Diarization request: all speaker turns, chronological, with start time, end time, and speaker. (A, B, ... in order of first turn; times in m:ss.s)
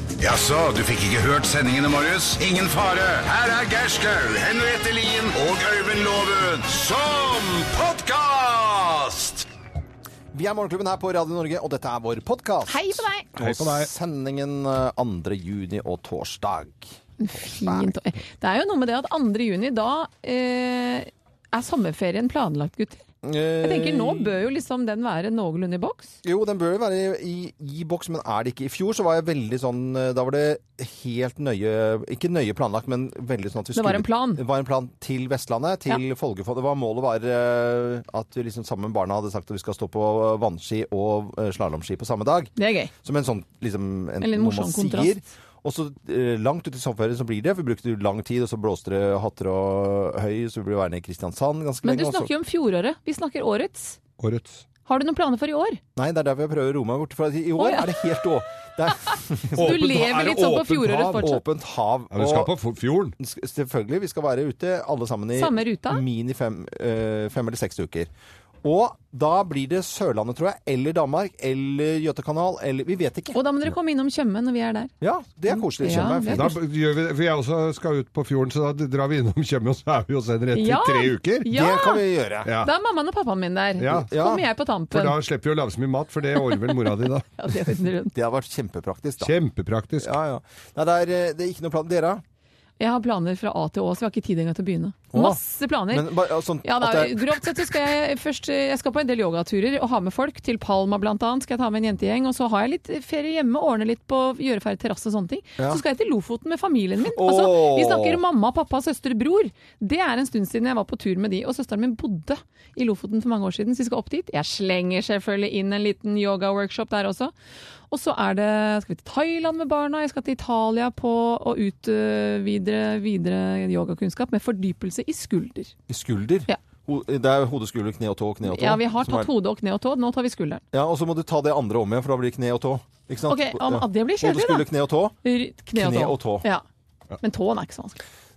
0:00.2-0:09.5 A
0:10.3-0:17.9 B
0:12.7-0:13.3 C
0:13.4-0:13.9 D
0:17.2-0:23.1 C
0:23.2-0:24.4 B
0:23.6-0:26.2 C
0:26.2-0:52.3 B
0:33.8-0:34.4 C
0:42.6-0:42.9 C
0:44.2-0:45.2 C
0:51.8-0:54.0 C
0:54.2-0:54.6 D
0:54.9-0:55.8 C
0:56.0-0:59.8 B
0:57.6-0:57.9 C
0:59.6-1:01.3 D
0:59.6-1:01.4 C
1:01.1-1:02.5 B
1:02.1-1:03.1 D
1:03.2-1:08.1 B
1:05.4-1:06.0 C
1:08.6-1:13.4 B
1:13.3-1:14.9 C
1:15.0-1:16.6 B
1:15.5-1:16.5 C
1:16.3-1:21.5 D
1:20.5-1:22.0 C
1:21.5-1:22.5 B
1:22.4-1:22.7 D
1:22.6-1:25.2 C
1:23.8-1:24.1 D
1:23.9-1:24.4 B
1:24.9-1:27.3 D
1:27.4-1:28.1 C
1:28.1-1:29.3 B
1:29.2-1:30.1 D
1:30.0-1:32.2 B
1:32.8-1:36.1 C
1:35.1-1:35.4 B
1:35.9-1:37.4 B
1:36.6-1:57.3 C
1:47.1-1:48.2 B
1:57.9-2:05.7 C
2:05.9-2:09.3 B
2:08.4-2:10.6 C
2:10.7-2:15.2 B
2:13.3-2:14.7 C
2:15.2-2:16.6 C
2:15.8-2:16.5 B
2:17.2-2:18.0 C